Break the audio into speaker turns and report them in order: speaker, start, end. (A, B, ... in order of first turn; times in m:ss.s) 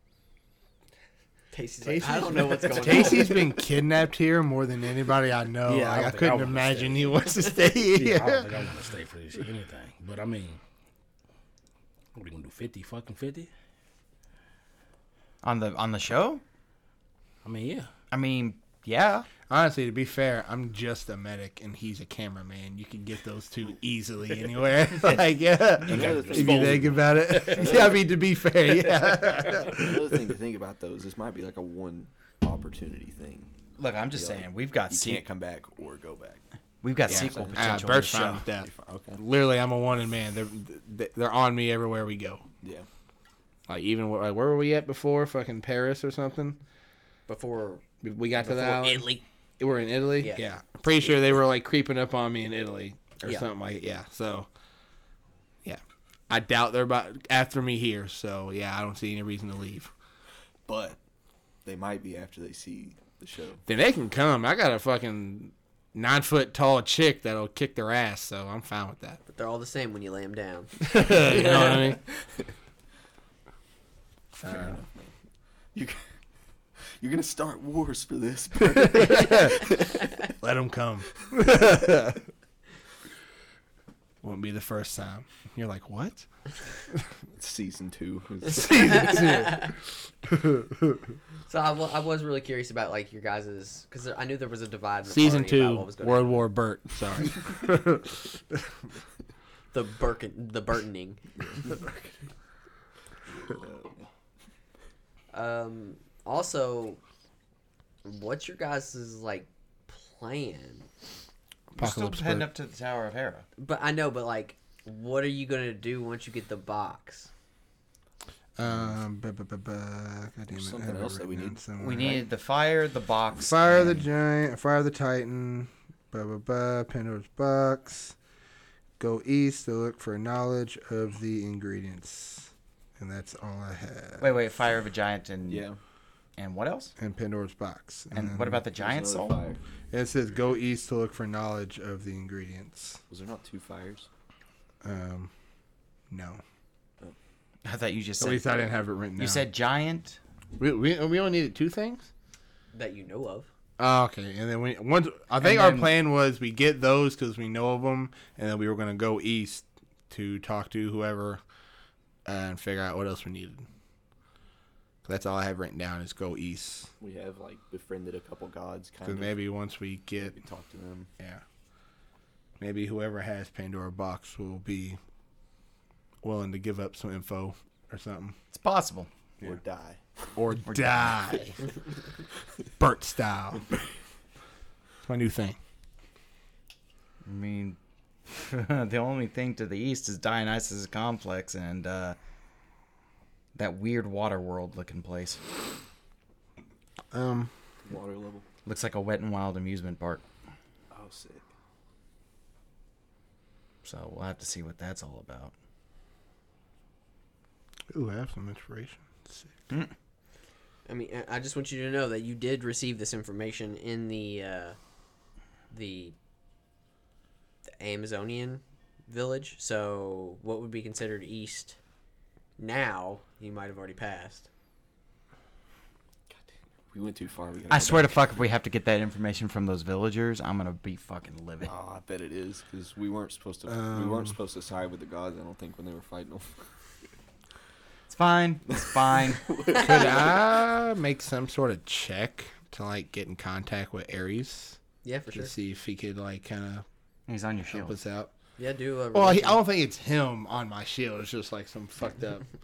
0:01.5-0:03.5 A
0:01.8-0:08.5 B
0:05.6-0:10.6 C
0:12.1-0:13.5 C
0:15.4-0:16.4 D
0:17.4-0:17.9 C
0:18.1-0:19.3 D
0:19.5-0:30.2 B
0:25.8-0:27.9 C
0:25.8-0:28.0 E
0:29.6-0:33.5 E
0:33.8-0:35.2 D
0:34.1-0:36.4 E
0:36.8-0:38.4 D
0:37.0-0:39.2 E
0:37.1-0:42.4 B
0:42.6-0:42.9 E
0:43.7-0:46.6 B
0:47.3-0:47.8 A
0:48.0-0:49.1 B
0:48.4-0:49.2 A
0:49.6-0:54.5 B
0:50.2-0:50.4 A
0:55.6-0:59.9 B
1:00.7-1:01.0 E
1:01.6-1:03.6 E
1:03.7-1:09.2 B
1:09.3-1:12.0 A
1:10.8-1:12.0 B
1:14.4-1:14.8 B
1:14.4-1:15.1 E
1:15.7-1:16.0 E
1:17.0-1:20.1 E
1:18.9-1:19.5 B
1:20.4-1:22.2 B
1:24.2-1:26.2 B
1:27.3-1:29.3 E
1:28.5-1:29.7 B
1:28.8-1:29.7 A
1:30.2-1:31.0 B
1:31.5-1:36.4 A
1:35.1-1:38.6 B
1:39.7-1:41.2 A
1:41.4-1:42.1 E
1:43.3-1:44.1 E
1:45.3-1:47.0 A
1:48.0-1:50.9 A
1:51.7-1:52.5 B
1:51.8-1:53.4 D
1:53.6-1:57.3 A
1:58.6-2:02.2 B
2:00.5-2:01.6 E
2:01.8-2:04.0 D
2:03.5-2:08.2 B
2:09.0-2:14.3 B
2:14.2-2:15.6 D
2:15.5-2:15.8 E
2:16.4-2:16.9 D
2:17.0-2:18.6 B
2:18.1-2:19.4 D
2:18.8-2:19.6 E
2:19.9-2:23.0 B
2:23.1-2:24.1 E
2:24.8-2:25.3 B
2:26.1-2:26.4 B
2:27.6-2:28.6 D
2:28.2-2:29.4 B
2:29.2-2:30.2 D
2:30.6-2:32.1 B
2:32.7-2:33.5 A
2:33.8-2:41.4 B
2:35.4-2:35.9 D
2:42.2-2:43.6 B
2:45.0-2:46.9 B
2:47.0-2:49.4 E
2:49.0-2:50.4 B
2:50.2-2:51.1 E
2:52.6-2:55.0 B
2:56.2-2:58.4 B
2:58.5-2:59.5 D
2:59.4-3:00.3 E
3:00.4-3:01.6 B
3:00.7-3:01.1 D
3:02.8-3:03.6 B
3:05.0-3:05.6 B
3:07.2-3:12.2 D
3:13.5-3:15.4 D
3:17.1-3:17.5 B
3:17.8-3:18.4 E
3:18.6-3:20.2 D
3:20.9-3:21.4 E
3:23.8-3:25.5 D
3:27.9-3:29.6 B
3:30.9-3:34.8 A
3:35.7-3:36.1 A
3:37.8-3:41.8 A
3:42.6-3:44.5 A
3:46.9-3:48.2 E
3:47.7-3:51.7 D
3:51.6-3:56.6 E
3:53.7-3:54.3 B
3:58.1-3:59.4 D
3:58.7-4:00.4 E
3:59.7-4:00.2 A
3:59.8-4:04.8 B
4:05.0-4:05.5 A
4:05.3-4:06.8 B
4:07.3-4:07.9 D
4:07.7-4:08.3 B
4:08.6-4:09.6 A
4:09.1-4:12.4 B